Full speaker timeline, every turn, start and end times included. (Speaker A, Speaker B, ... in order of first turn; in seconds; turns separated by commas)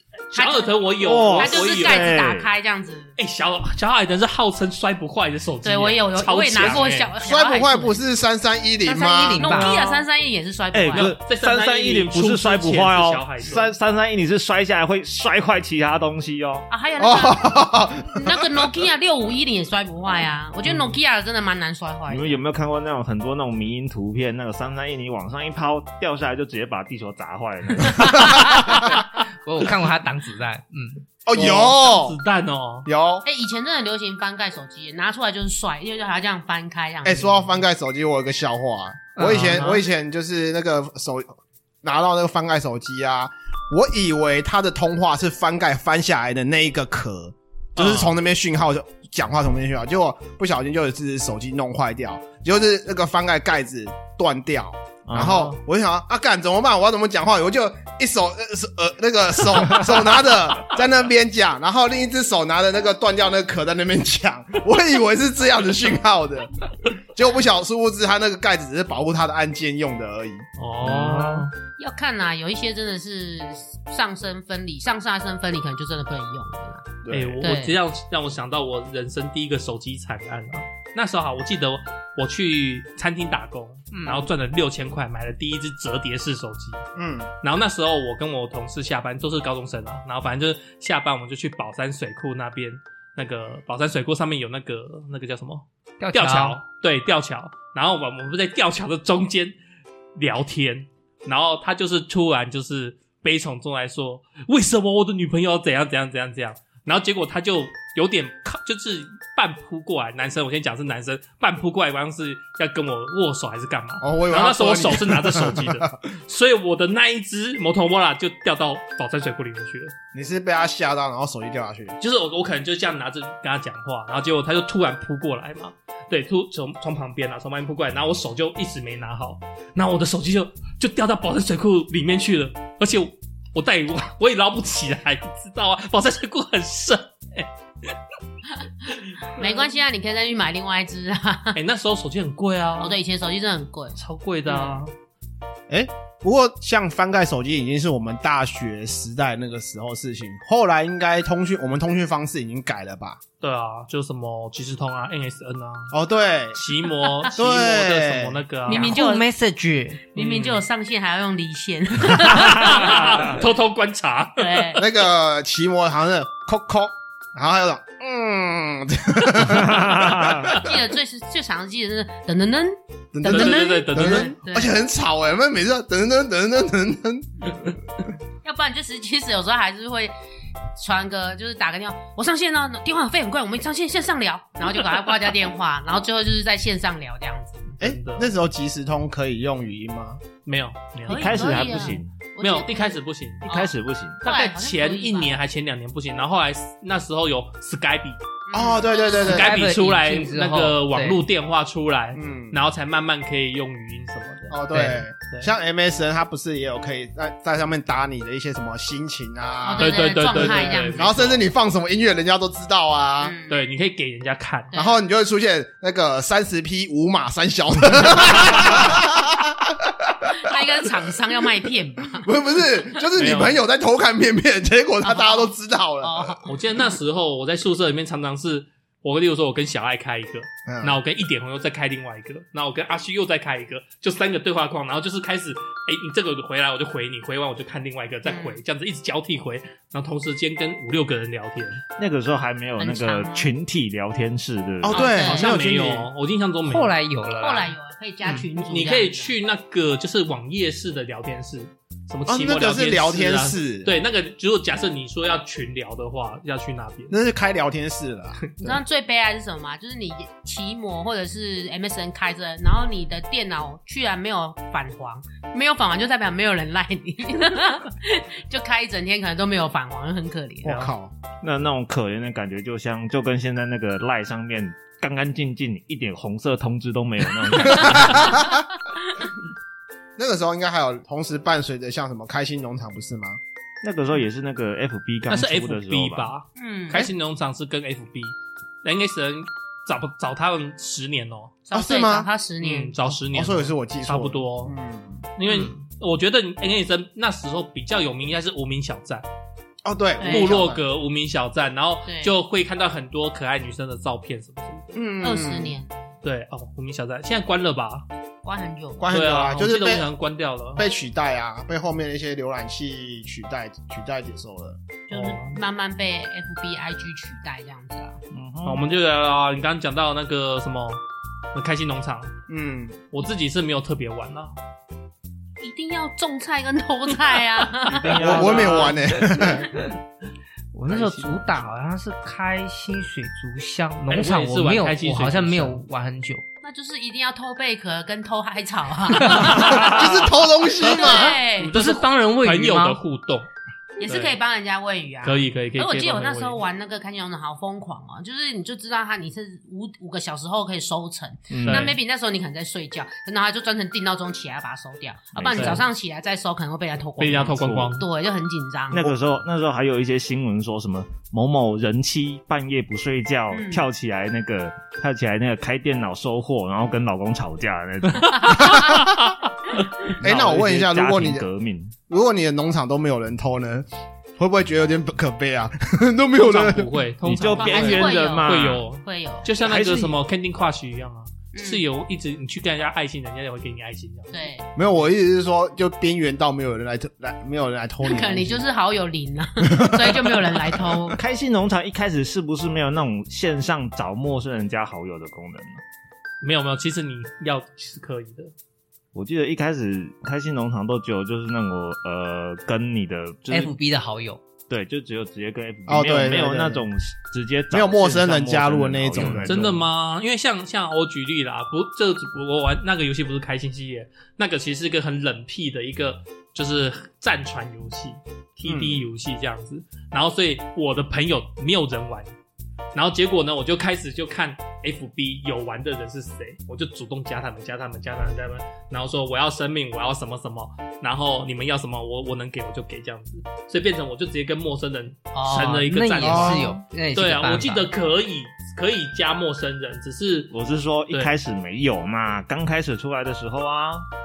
Speaker A: 0.3-2.1, Speaker B: 0.3-3.1, Speaker C: 1.0-2.5, Speaker A: 3.2-7.1, Speaker B: 5.6-8.0, Speaker D: 7.2-9.6, Speaker B: 8.8-11.2, Speaker E: 9.2-10.0, Speaker C: 10.7-16.6, Speaker A: 10.9-13.7, Speaker B: 16.7-22.4, Speaker D: 17.0-18.6, Speaker C: 22.1-28.9, Speaker B: 27.8-28.8, Speaker D: 28.2-28.6, Speaker E: 29.4-31.0, Speaker D: 31.2-32.2, Speaker A: 31.3-32.9, Speaker D: 32.9-33.2, Speaker B: 33.2-37.5, Speaker D: 37.0-70.5, Speaker E: 39.1-39.8, Speaker A: 47.8-48.1, Speaker C: 55.0-55.5, Speaker A: 70.6-71.5, Speaker C: 70.9-71.4, Speaker B: 71.8-77.8, Speaker D: 77.0-77.4, Speaker A: 77.1-86.8, Speaker E: 83.9-84.3, Speaker D: 87.0-87.3, Speaker A: 87.4-99.5, Speaker E: 96.0-96.6, Speaker A: 100.2-119.9, Speaker D: 114.0-115.8, Speaker D: 120.1-122.0, Speaker A: 122.0-137.9, Speaker A: 139.1-139.7, Speaker B: 139.3-141.6, Speaker A: 141.5-143.0, Speaker B: 142.8-144.8, Speaker A: 143.9-144.9, Speaker D: 145.7-153.2, Speaker A: 153.4-155.9, Speaker D: 155.9-156.6, Speaker A: 156.5-158.9, Speaker D: 157.3-158.4, Speaker B: 158.7-159.3, Speaker E: 158.7-160.0, Speaker B: 160.1-163.4, Speaker A: 160.2-160.6, Speaker A: 162.1-164.8, Speaker B: 164.4-164.8, Speaker D: 164.8-170.8, Speaker C: 169.4-170.5, Speaker B: 170.6-174.7, Speaker D: 173.1-177.8, Speaker A: 173.3-174.4, Speaker B: 178.4-180.1, Speaker B: 180.8-187.8, Speaker A: 187.8-188.3, Speaker D: 187.8-190.2, Speaker A: 190.4-193.5, Speaker C: 191.1-192.1, Speaker B: 191.1-193.0, Speaker C: 193.4-194.2, Speaker A: 194.2-198.2, Speaker B: 194.2-195.3, Speaker B: 198.5-199.5, Speaker D: 198.5-199.5, Speaker A: 199.0-204.6, Speaker E: 199.2-201.2, Speaker D: 202.1-202.6, Speaker D: 204.5-213.3, Speaker E: 204.7-205.0, Speaker B: 209.6-211.1, Speaker A: 209.8-211.4, Speaker B: 213.2-213.6, Speaker A: 213.5-214.7, Speaker B: 214.7-215.0, Speaker D: 214.7-221.1, Speaker B: 220.3-222.3, Speaker D: 222.1-226.4, Speaker A: 223.2-223.6, Speaker B: 225.1-225.5, Speaker B: 226.0-226.9, Speaker A: 226.5-241.8, Speaker D: 230.7-231.0, Speaker B: 238.2-238.6, Speaker C: 242.0-245.0, Speaker B: 242.8-243.5, Speaker D: 244.8-246.1, Speaker B: 244.9-245.5, Speaker A: 245.0-246.9, Speaker E: 246.7-247.7, Speaker B: 247.4-249.3, Speaker A: 248.3-257.1, Speaker D: 252.2-253.9, Speaker D: 257.1-258.8, Speaker B: 258.6-270.8, Speaker D: 270.6-271.1, Speaker A: 270.6-270.9, Speaker C: 271.4-278.4, Speaker D: 277.7-278.6, Speaker B: 277.8-278.4, Speaker D: 280.2-283.4, Speaker C: 283.8-286.3, Speaker A: 285.3-291.5, Speaker B: 286.6-287.1, Speaker B: 291.7-292.9, Speaker D: 291.7-292.3, Speaker A: 292.6-294.7, Speaker D: 293.3-295.3, Speaker A: 295.4-299.2, Speaker B: 295.4-295.7, Speaker D: 299.8-300.8, Speaker B: 300.2-300.5, Speaker A: 300.2-305.0, Speaker B: 302.1-302.3, Speaker D: 304.9-305.8, Speaker B: 305.2-306.0, Speaker A: 306.2-308.1, Speaker B: 308.4-309.1, Speaker D: 309.0-310.1, Speaker A: 309.1-310.8, Speaker D: 310.8-314.8, Speaker B: 315.1-318.2, Speaker A: 315.1-315.6, Speaker C: 318.3-318.8, Speaker A: 318.6-321.0, Speaker A: 321.5-322.3, Speaker D: 322.5-323.0, Speaker A: 323.1-324.6, Speaker B: 325.6-328.9, Speaker C: 327.9-328.9, Speaker A: 327.9-329.0, Speaker D: 328.2-329.7, Speaker E: 330.7-336.4, Speaker A: 334.1-335.8, Speaker B: 336.6-341.7, Speaker A: 339.1-343.5, Speaker D: 339.4-341.4, Speaker E: 341.6-343.0, Speaker B: 344.0-359.1, Speaker A: 344.0-344.4, Speaker A: 345.2-346.6, Speaker C: 351.5-351.9, Speaker A: 351.6-351.9, Speaker D: 355.3-355.8, Speaker A: 355.5-355.9, Speaker A: 357.2-358.1, Speaker C: 358.9-368.5, Speaker B: 363.5-363.9, Speaker A: 368.1-369.8, Speaker B: 368.2-368.8, Speaker D: 368.6-369.1, Speaker D: 370.2-371.4, Speaker C: 370.2-371.9, Speaker D: 372.1-373.9, Speaker D: 374.4-376.9, Speaker A: 376.4-384.5, Speaker C: 377.2-378.9, Speaker B: 377.5-379.5, Speaker C: 379.6-380.1, Speaker B: 381.5-381.8, Speaker B: 384.3-384.7, Speaker D: 384.8-388.6, Speaker B: 388.0-391.2, Speaker D: 389.6-390.9, Speaker C: 391.1-395.8, Speaker A: 396.4-398.5, Speaker C: 399.1-403.7, Speaker E: 403.5-404.4, Speaker C: 404.7-409.8, Speaker D: 405.9-406.9, Speaker D: 407.7-409.8, Speaker A: 409.1-422.3, Speaker D: 418.6-419.1, Speaker A: 422.9-440.5, Speaker E: 435.3-437.9, Speaker D: 436.2-436.7, Speaker C: 440.5-444.1